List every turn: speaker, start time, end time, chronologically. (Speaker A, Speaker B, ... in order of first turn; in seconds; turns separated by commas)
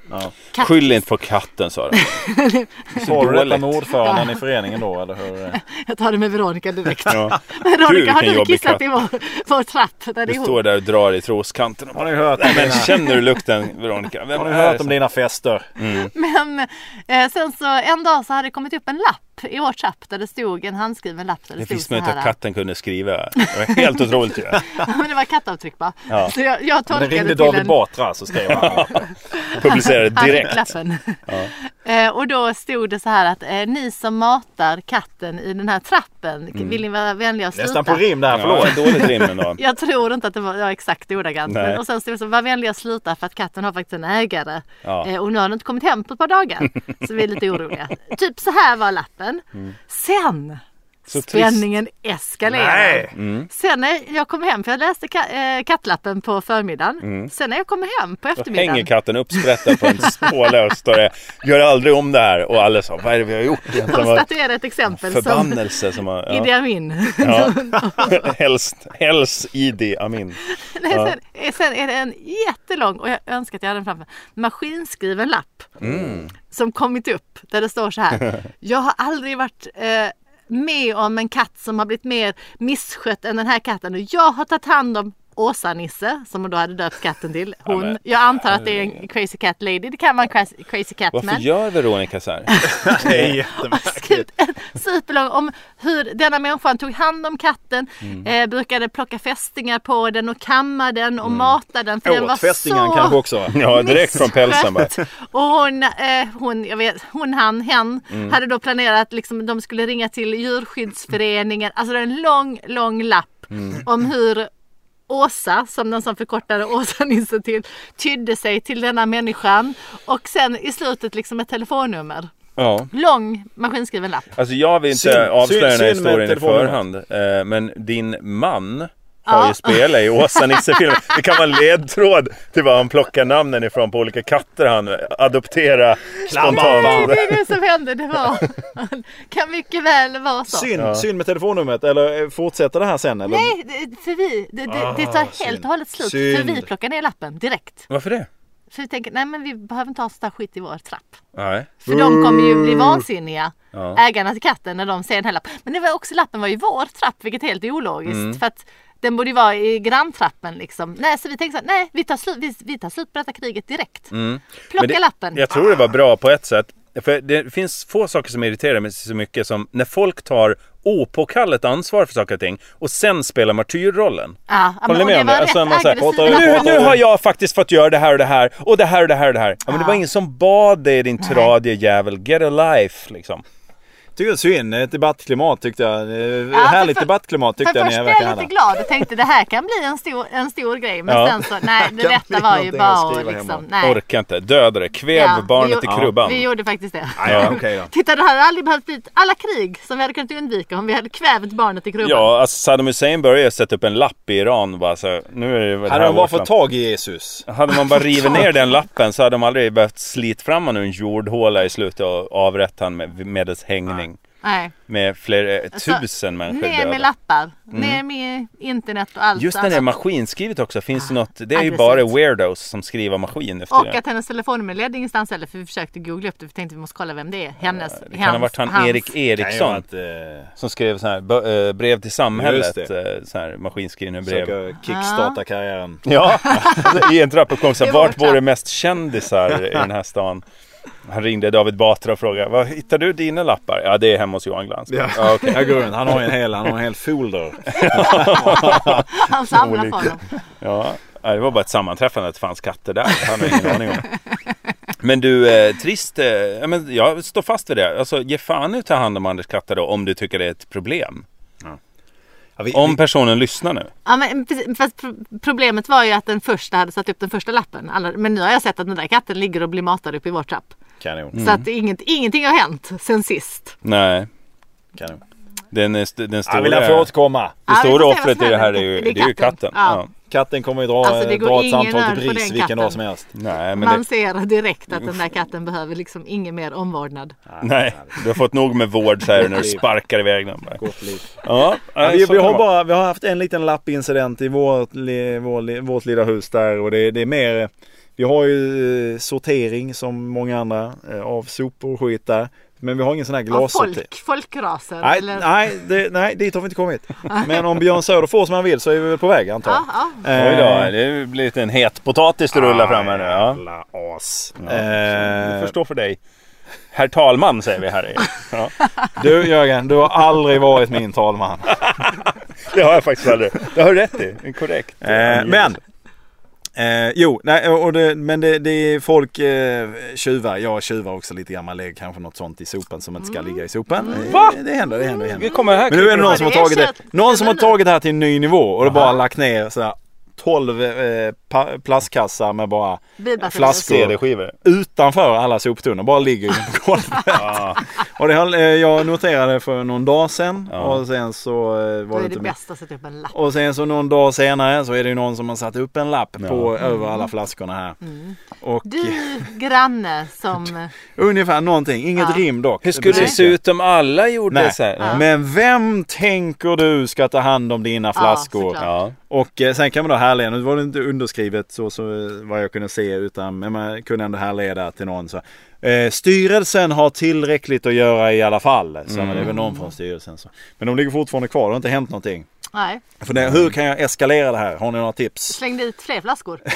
Speaker A: 0.5-0.9, Speaker B: 0.6-2.2, Speaker A: 1.9-3.0, Speaker B: 3.0-3.8, Speaker C: 3.0-5.6, Speaker A: 4.0-4.4, Speaker A: 5.5-10.6, Speaker B: 7.1-8.8, Speaker B: 10.3-14.9, Speaker C: 11.9-13.1, Speaker C: 14.3-15.7, Speaker B: 15.8-16.1, Speaker A: 15.9-22.3, Speaker B: 21.6-24.6, Speaker A: 23.4-27.8, Speaker C: 26.9-29.0, Speaker B: 28.5-29.0, Speaker A: 29.0-60.3, Speaker B: 29.6-30.7, Speaker C: 37.5-39.3, Speaker B: 38.3-39.6, Speaker B: 41.5-41.8, Speaker B: 44.8-45.1, Speaker B: 51.1-51.6, Speaker C: 52.5-53.1, Speaker B: 53.1-53.5, Speaker B: 57.0-57.3, Speaker B: 58.4-64.3, Speaker A: 63.8-65.7, Speaker B: 64.9-66.5, Speaker A: 66.3-68.3, Speaker B: 67.2-71.2, Speaker A: 70.5-75.7, Speaker B: 75.8-76.3, Speaker A: 76.5-91.5, Speaker B: 87.7-89.0, Speaker B: 91.1-93.3, Speaker A: 92.5-114.5, Speaker C: 92.8-94.3, Speaker B: 101.2-101.5, Speaker C: 102.0-103.6, Speaker B: 103.5-105.0, Speaker B: 113.5-113.8, Speaker A: 115.1-122.3, Speaker B: 122.6-122.9, Speaker A: 122.9-124.3, Speaker B: 124.4-137.3, Speaker C: 124.9-126.8, Speaker A: 129.3-131.2, Speaker C: 136.3-137.3, Speaker A: 136.4-140.7, Speaker C: 140.5-143.5, Speaker B: 140.8-141.0, Speaker A: 143.3-147.9, Speaker C: 144.7-146.7, Speaker B: 147.9-148.3, Speaker A: 148.7-151.2, Speaker B: 151.3-151.8, Speaker A: 151.8-164.1, Speaker C: 151.9-153.0, Speaker B: 153.7-154.0, Speaker B: 158.1-158.4, Speaker B: 164.1-183.4, Speaker A: 164.7-165.5, Speaker A: 174.5-176.9, Speaker C: 175.9-177.0, Speaker A: 179.7-180.0, Speaker A: 181.2-181.5, Speaker C: 184.2-188.5, Speaker A: 186.5-194.0, Speaker B: 191.1-191.4, Speaker C: 191.6-193.7, Speaker B: 193.8-196.5, Speaker A: 195.1-202.3, Speaker C: 195.8-196.2, Speaker C: 197.2-197.9, Speaker B: 197.2-197.6, Speaker B: 202.0-206.5, Speaker C: 205.9-207.5, Speaker B: 207.5-214.2, Speaker A: 214.4-214.7, Speaker B: 214.9-217.1, Speaker A: 215.7-219.9, Speaker B: 217.7-218.0, Speaker B: 219.4-224.0, Speaker A: 221.0-222.1, Speaker A: 223.7-229.1, Speaker B: 227.7-229.8, Speaker C: 229.4-230.5, Speaker B: 230.6-234.6, Speaker C: 232.3-232.9, Speaker C: 234.2-236.9, Speaker A: 234.9-235.4, Speaker B: 236.1-240.4, Speaker A: 236.6-236.9, Speaker A: 237.8-238.4, Speaker B: 241.1-246.2, Speaker C: 244.9-249.0, Speaker B: 247.7-254.1, Speaker A: 248.2-250.2, Speaker C: 253.4-253.8, Speaker B: 255.0-261.2, Speaker C: 262.6-263.0, Speaker B: 262.7-263.9, Speaker A: 264.1-270.8, Speaker C: 271.0-271.4, Speaker B: 271.3-271.6, Speaker A: 271.4-273.8, Speaker B: 273.8-274.3, Speaker C: 274.9-275.2, Speaker B: 275.7-277.1, Speaker C: 276.5-277.6, Speaker B: 277.7-280.1, Speaker A: 277.7-280.0, Speaker C: 280.3-283.3, Speaker A: 281.0-283.0, Speaker B: 283.3-284.0, Speaker A: 283.8-287.4, Speaker C: 287.5-288.1, Speaker B: 287.6-290.8, Speaker C: 289.4-289.9, Speaker C: 290.8-291.4, Speaker B: 291.4-292.6, Speaker C: 292.0-304.1, Speaker A: 303.5-305.5, Speaker C: 305.0-310.9, Speaker A: 309.7-310.3, Speaker B: 310.3-313.6, Speaker C: 312.5-315.7, Speaker B: 314.6-316.2, Speaker B: 316.9-318.9, Speaker C: 319.1-321.8, Speaker B: 321.8-325.8, Speaker C: 325.0-325.8, Speaker C: 326.8-352.5, Speaker A: 334.0-334.3, Speaker B: 334.1-334.6, Speaker A: 334.9-337.8, Speaker B: 335.3-336.6, Speaker A: 343.2-344.0, Speaker B: 343.7-344.6, Speaker B: 347.3-347.8, Speaker B: 350.7-351.0, Speaker A: 352.1-353.4, Speaker C: 353.3-358.0, Speaker B: 356.4-356.7, Speaker A: 358.0-360.9, Speaker C: 358.6-359.5, Speaker C: 361.2-363.6, Speaker B: 362.9-365.2, Speaker A: 363.1-363.4, Speaker C: 364.5-382.5, Speaker A: 368.2-368.9, Speaker B: 368.8-369.1, Speaker B: 379.1-379.7, Speaker A: 382.7-383.0, Speaker C: 383.2-385.6, Speaker A: 385.5-386.6